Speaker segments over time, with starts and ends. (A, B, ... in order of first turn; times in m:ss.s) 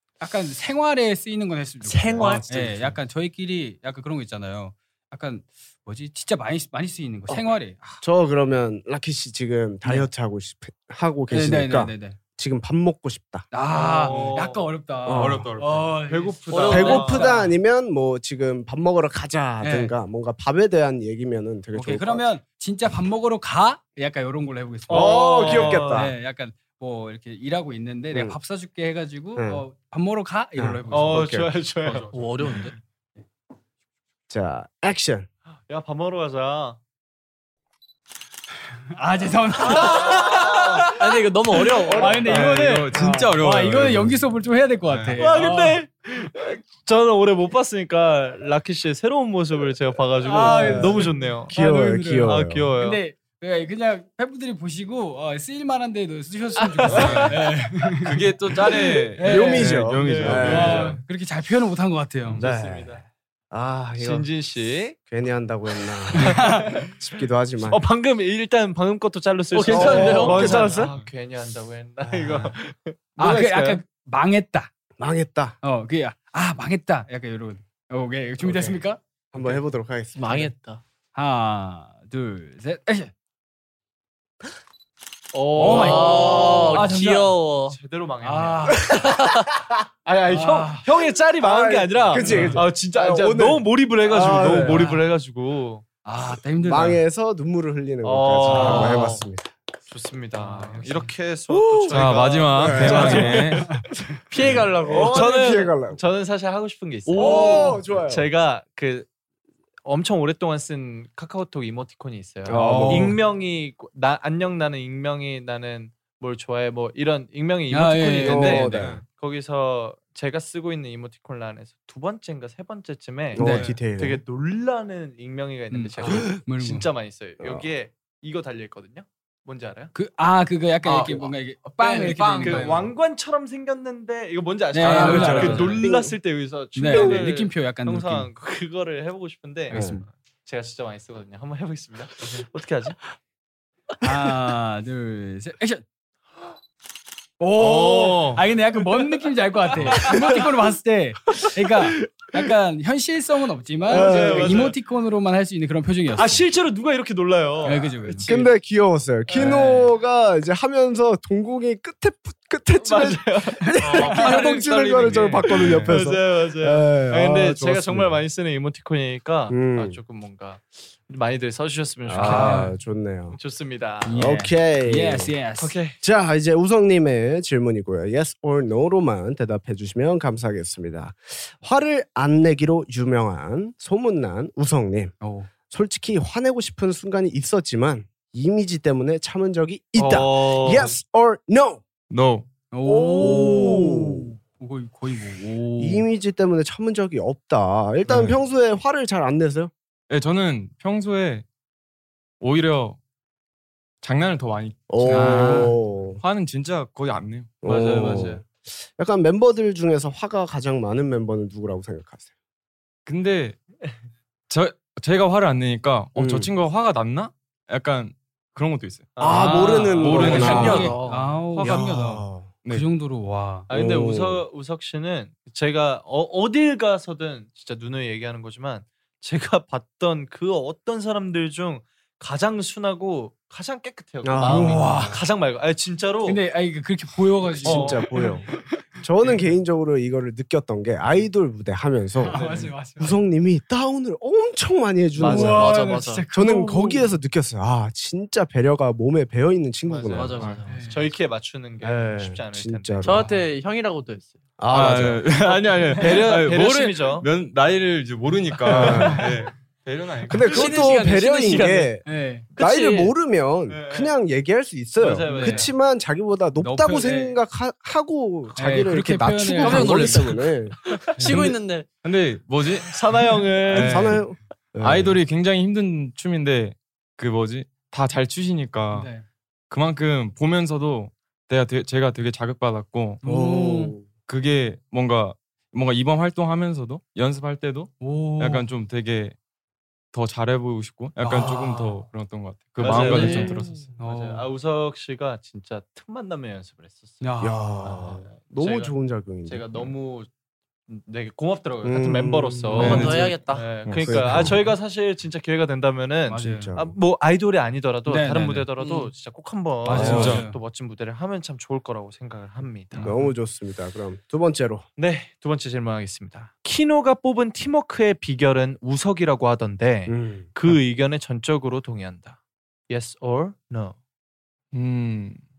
0:00.2-0:08.0 A
0:01.8-0:02.5 B
0:02.2-0:03.0 C
0:08.0-0:13.5 D
0:09.8-0:10.1 A
0:11.3-0:12.2 A
0:13.5-0:17.5 A
0:13.7-0:14.7 E
0:14.0-0:14.4 C
0:15.1-0:15.5 D
0:15.1-0:16.0 C
0:16.0-0:17.3 E
0:16.5-0:17.3 B
0:16.7-0:22.2 D
0:19.6-0:19.9 A
0:21.7-0:31.2 A
0:24.9-0:26.1 E
0:24.9-0:26.1 D
0:28.1-0:28.4 D
0:29.4-0:29.6 D
0:30.6-0:31.5 D
0:30.9-0:32.2 E
0:32.1-0:32.8 B
0:34.3-0:35.3 D
0:35.7-0:36.8 E
0:38.9-0:41.0 A
0:39.6-0:42.6 E
0:41.0-0:42.3 B
0:41.9-0:45.8 A
0:42.3-0:44.2 C
0:42.9-0:43.3 D
0:44.8-0:45.3 C
0:45.2-0:51.5 E
0:50.2-0:59.8 A
0:50.4-0:52.7 D
0:52.2-0:53.0 E
0:56.8-1:01.0 C
0:56.9-0:57.2 D
0:59.2-1:01.0 D
0:59.8-1:01.0 E
1:00.4-1:02.4 A
1:02.3-1:03.0 E
1:02.4-1:04.3 D
1:04.0-1:05.0 E
1:05.0-1:07.8 D
1:06.1-1:06.9 E
1:06.2-1:06.8 A
1:07.6-1:13.6 E
1:09.5-1:10.8 B
1:09.7-1:10.9 D
1:12.0-1:12.5 D
1:13.2-1:14.7 A
1:13.2-1:13.8 D
1:15.0-1:15.6 D
1:15.6-1:19.6 A
1:18.4-1:18.8 D
1:19.3-1:20.5 D
1:20.2-1:20.8 B
1:21.1-1:23.1 A
1:25.3-1:28.9 E
1:25.6-1:27.3 A
1:25.6-1:27.8 B
1:28.2-1:28.9 A
1:28.8-1:29.2 D
1:28.9-1:29.5 B
1:30.0-1:35.8 E
1:30.3-1:30.8 A
1:31.4-1:34.8 D
1:32.2-1:32.6 A
1:34.4-1:35.0 A
1:36.0-1:37.0 A
1:36.6-1:39.5 D
1:38.0-1:39.2 E
1:38.5-1:39.1 A
1:38.7-1:39.1 B
1:39.9-1:43.8 E
1:40.4-1:41.1 A
1:41.5-1:43.4 D
1:41.9-1:43.8 C
1:42.8-1:43.3 B
1:44.3-1:45.4 B
1:44.4-1:46.0 D
1:44.8-1:49.1 E
1:47.1-1:47.8 B
1:47.2-1:48.3 D
1:49.8-2:09.9 E
1:52.4-1:53.2 D
1:52.5-1:53.2 A
1:57.7-1:58.7 A
1:58.2-1:59.0 D
1:58.6-1:59.0 C
2:03.3-2:04.2 D
2:03.4-2:03.8 A
2:05.7-2:06.9 A
2:06.0-2:06.3 D
2:07.4-2:07.7 D
2:09.9-2:12.9 A
2:10.8-2:11.2 C
2:11.8-2:12.8 C
2:12.4-2:23.0 E
2:14.7-2:15.8 A
2:14.9-2:16.2 D
2:14.9-2:15.8 C
2:16.7-2:18.3 A
2:16.9-2:17.3 D
2:19.7-2:20.0 A
2:19.7-2:20.0 D
2:24.0-2:25.8 A
2:27.4-2:36.4 A
2:27.6-2:28.4 E
2:29.8-2:30.4 E
2:33.9-2:34.8 E
2:33.9-2:34.7 D
2:36.1-2:38.5 E
2:37.6-2:38.4 A
2:38.2-2:48.2 D
2:39.3-2:39.7 E
2:39.3-2:39.9 A
2:42.8-2:52.7 E
2:43.8-2:46.0 C
2:49.5-2:50.0 D
2:52.1-2:53.4 D
2:52.2-2:52.8 A
2:53.3-2:54.3 E
2:54.0-2:55.8 A
2:54.1-2:55.3 D
2:55.6-2:56.0 E
2:56.0-3:05.1 D
3:05.2-3:05.5 A
3:05.7-3:11.8 D
3:10.0-3:11.0 E
3:12.1-3:12.5 C
3:12.7-3:16.1 A
3:12.8-3:14.3 D
3:15.8-3:19.7 D
3:18.1-3:18.4 C
3:20.1-3:21.4 C
3:22.4-3:23.0 C
3:24.0-3:28.4 C
3:24.9-3:26.2 D
3:25.0-3:25.8 A
3:27.6-3:32.3 D
3:33.0-3:33.6 C
3:34.5-3:41.0 C
3:36.2-3:36.5 D
3:39.2-3:40.9 E
3:39.2-3:40.9 D
3:39.3-3:43.7 A
3:40.1-3:41.4 B
3:41.5-3:41.9 C
3:41.6-3:42.5 D
3:43.7-3:56.4 E
3:43.7-3:44.4 D
3:54.2-3:55.2 D
3:54.4-3:55.2 A
3:56.2-3:59.4 A
3:57.6-3:58.1 E
3:57.6-3:58.5 D
3:59.0-4:05.8 D
4:02.2-4:03.2 A
4:02.3-4:02.7 E
4:05.2-4:05.9 E
4:05.2-4:07.2 A
4:05.3-4:06.2 B
4:06.3-4:10.4 D
4:09.8-4:13.2 E
4:10.1-4:10.8 B
4:10.4-4:10.7 C
4:10.6-4:11.0 A
4:11.8-4:13.2 D
4:13.0-4:14.4 B
4:13.2-4:13.4 A
4:14.6-4:15.4 D
4:14.7-4:20.9 C
4:15.9-4:17.3 E
4:18.7-4:19.2 D
4:18.7-4:19.3 A
4:20.3-4:30.8 D
4:20.4-4:22.0 B
4:22.0-4:22.4 A
4:22.5-4:23.1 B
4:23.7-4:24.1 E
4:25.0-4:25.7 E
4:25.2-4:25.7 A
4:26.6-4:27.4 A
4:28.6-4:30.3 A
4:29.6-4:31.9 B
4:31.2-4:34.2 C
4:32.9-4:34.2 E
4:33.7-4:35.2 D
4:34.8-4:39.1 C
4:38.9-4:39.2 A
4:39.7-4:43.2 C
4:43.2-4:44.0 A
4:43.2-4:44.1 D
4:44.3-4:49.4 C
4:48.0-4:48.7 A
4:50.1-4:53.9 C
4:51.2-4:52.0 A
4:52.8-4:57.2 E
4:52.8-4:53.8 B
4:53.1-4:54.5 A
4:57.2-4:58.1 A
4:57.4-4:59.9 D
4:57.8-5:00.3 E
5:00.9-5:13.1 E
5:01.8-5:03.3 D
5:02.7-5:03.3 C
5:02.8-5:03.7 B
5:03.8-5:04.6 C
5:04.0-5:04.7 D
5:06.3-5:06.7 A
5:06.4-5:07.0 D
5:08.0-5:08.7 A
5:08.8-5:09.1 B
5:09.8-5:10.6 A
5:09.9-5:10.5 C
5:09.9-5:10.4 D
5:13.0-5:13.3 A
5:13.0-5:14.8 D
5:15.0-5:22.4 E
5:20.1-5:20.5 D
5:22.9-5:24.0 E
5:24.7-5:25.4 C